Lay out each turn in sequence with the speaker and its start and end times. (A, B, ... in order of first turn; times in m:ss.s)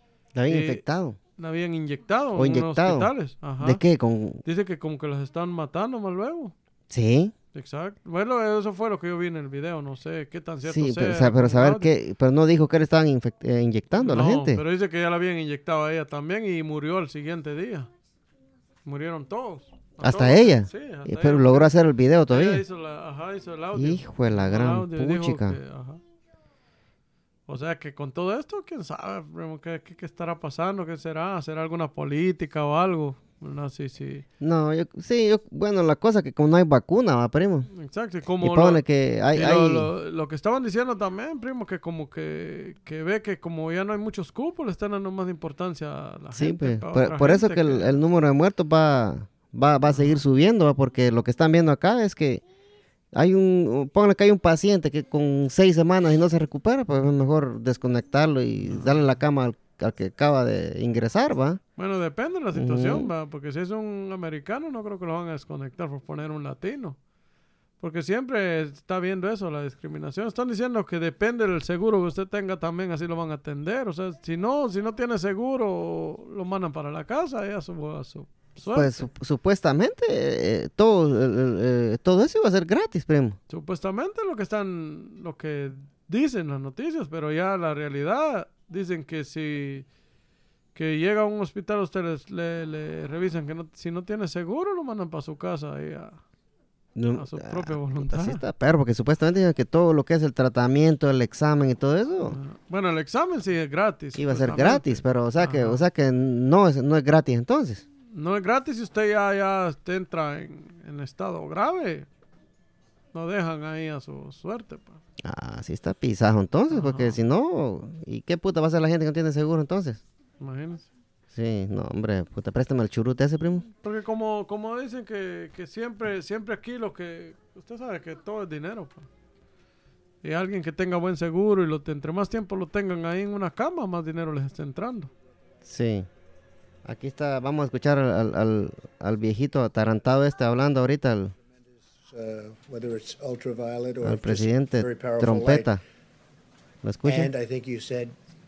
0:00.3-0:01.2 A
0:00.5-0:00.8 B
0:01.4-0:03.8 B
0:02.4-0:04.4 A
0:04.4-0:06.5 B
0:06.9-0:07.3 A
0:07.5-0:11.9 B
0:10.6-0:14.6 A
0:14.0-0:17.9 B
0:18.8-0:21.7 B
0:20.0-0:22.6 A
0:22.3-0:26.0 B
0:23.7-0:25.6 A
0:27.5-0:34.2 B
0:34.4-0:37.7 A
0:37.7-0:38.8 B
0:38.4-0:39.9 A
0:39.3-0:48.0 B
0:46.3-0:52.4 A
0:49.9-0:50.2 B
0:53.1-1:01.6 A
0:58.7-0:59.0 B
1:01.8-1:07.0 B
1:02.5-1:03.1 A
1:07.8-1:19.1 B
1:18.7-1:23.4 A
1:23.5-1:29.9 B
1:30.7-1:36.2 B
1:37.0-1:42.4 A
1:37.1-1:38.4 B
1:42.3-1:45.8 B
1:44.1-1:47.8 A
1:48.1-1:52.1 B
1:53.1-1:55.0 B
1:55.2-2:00.0 A
1:56.7-1:57.2 B
2:00.4-2:00.9 B
2:01.3-2:03.6 A
2:03.8-2:09.1 B
2:10.2-2:15.1 B
2:15.6-2:16.1 A
2:16.8-2:21.3 A
2:22.0-2:25.7 C
2:24.0-2:25.8 A
2:26.8-2:27.3 A
2:27.0-2:28.1 C